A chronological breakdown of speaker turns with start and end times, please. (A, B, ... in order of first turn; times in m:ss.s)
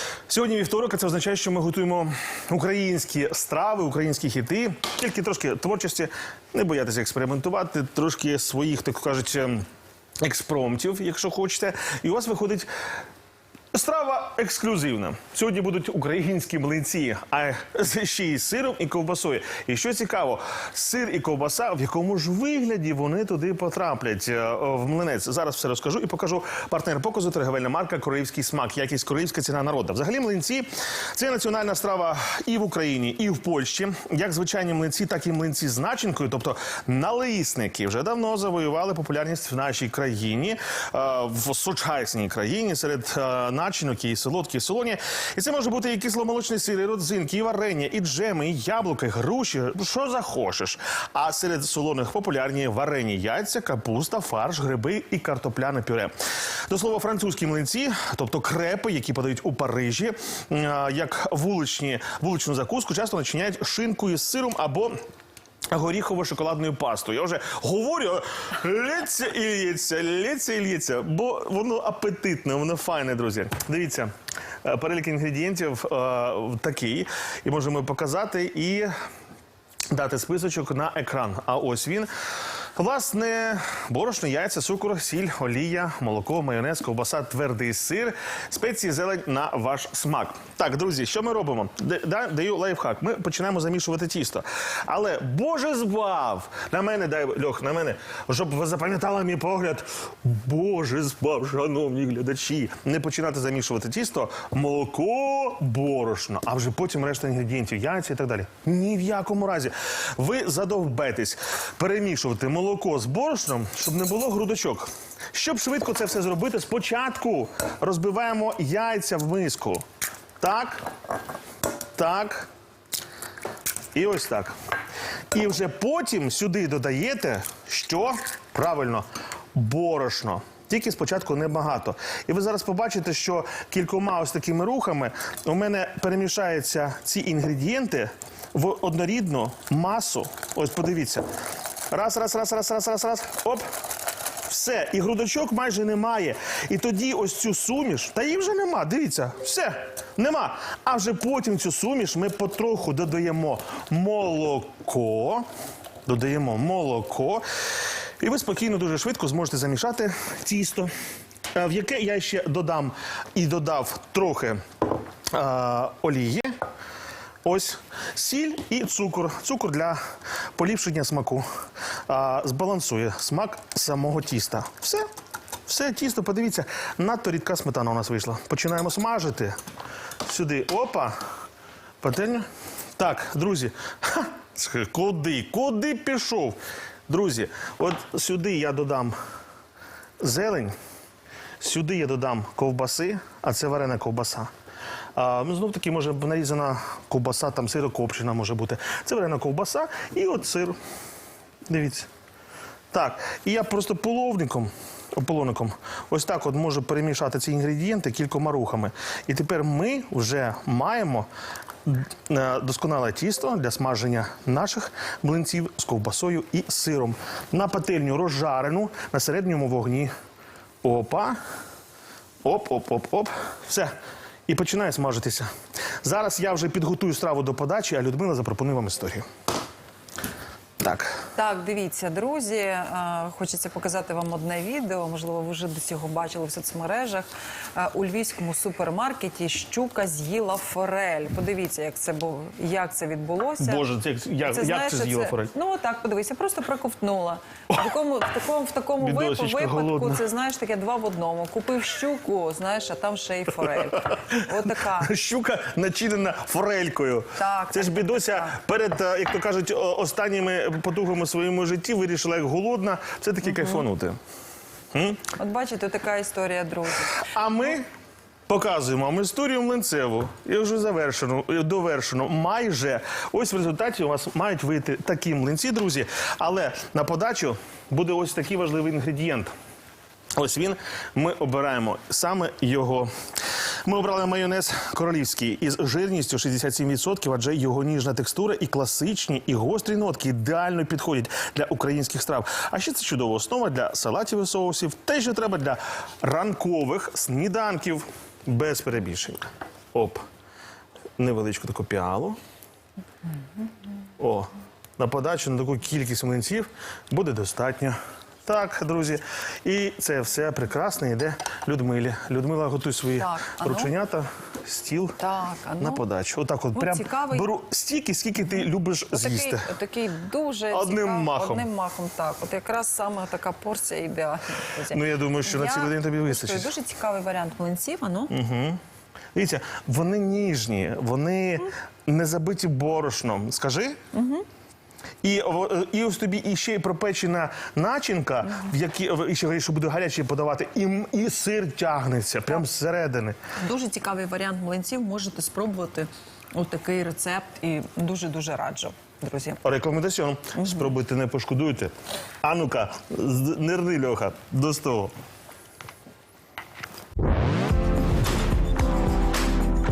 0:00.3-0:09.6 A
0:10.2-0:12.7 A
0:13.7-0:56.1 A
0:56.7-1:05.0 A
1:05.7-1:14.1 A
1:14.6-1:18.9 A
1:19.9-1:22.1 A
1:22.8-1:59.8 A
2:00.4-2:00.8 A
2:01.9-2:02.5 A
2:03.9-2:04.5 A
2:05.3-2:21.2 A
2:21.9-2:23.6 A
2:24.5-2:35.4 A
2:36.1-2:37.4 A
2:38.2-2:40.9 A
2:41.5-2:44.6 A
2:45.3-2:46.5 A
2:47.4-2:50.0 A
2:50.6-2:51.5 A
2:52.1-2:55.1 A
2:55.7-2:59.6 A
3:00.2-3:01.2 A
3:02.0-3:06.6 A
3:07.1-3:09.2 A
3:10.2-3:10.8 A
3:11.6-3:14.5 A
3:15.2-3:20.8 A
3:21.7-3:22.1 A
3:22.9-3:31.3 A
3:31.8-3:40.1 A
3:40.8-3:41.4 A
3:42.4-3:43.9 A
3:44.5-3:45.5 A
3:46.0-3:49.2 A
3:50.8-3:51.2 A
3:51.3-4:03.8 B
4:03.6-4:05.5 A
4:04.4-4:15.1 B
4:09.0-4:10.2 A
4:14.1-4:24.2 A
4:17.4-4:18.6 B
4:23.5-4:23.8 B
4:24.9-4:25.2 A
4:25.4-4:27.3 B
4:27.2-4:27.9 A
4:28.5-4:39.5 A
4:40.4-4:43.1 A
4:43.8-5:00.2 A
5:01.2-5:02.4 A
5:04.2-5:15.2 A
5:13.2-5:13.9 B
5:15.2-5:16.0 B
5:15.8-5:19.7 A
5:16.8-5:17.5 B
5:19.1-5:28.3 B
5:20.7-5:21.7 A
5:24.9-5:26.7 A
5:28.3-5:28.8 A
5:29.4-5:34.0 A
5:34.1-5:34.4 B
5:35.2-5:43.4 A
5:43.6-5:49.6 B
5:49.6-5:55.1 A
5:50.5-5:50.9 B